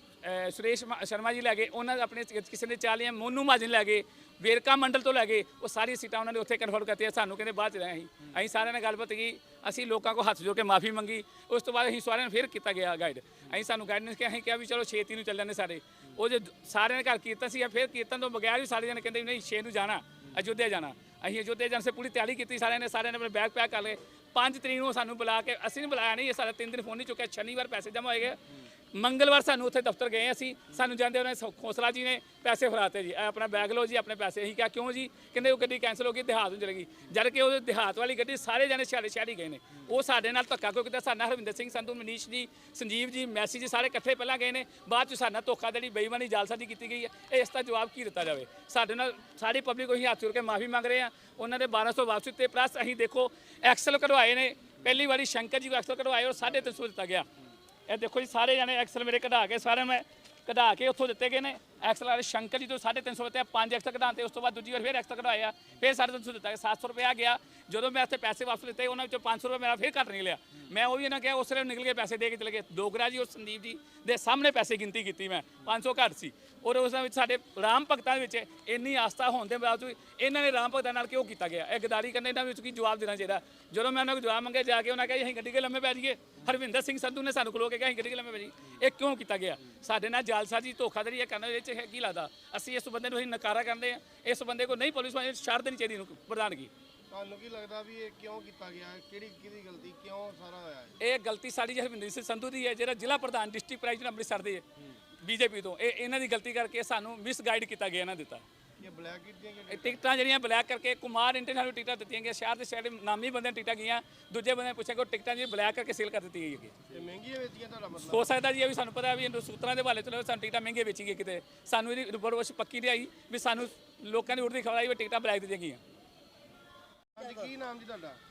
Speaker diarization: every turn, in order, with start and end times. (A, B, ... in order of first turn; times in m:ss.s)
0:00.2-0:28.4 A
0:28.9-0:57.3 A
0:57.9-1:36.7 A
1:37.1-1:41.0 B
1:41.0-1:44.6 A
1:45.2-1:48.4 A
1:48.8-1:50.0 B
1:49.7-1:56.8 A
1:56.9-1:58.3 B
1:58.0-2:05.8 A
2:07.2-2:08.2 B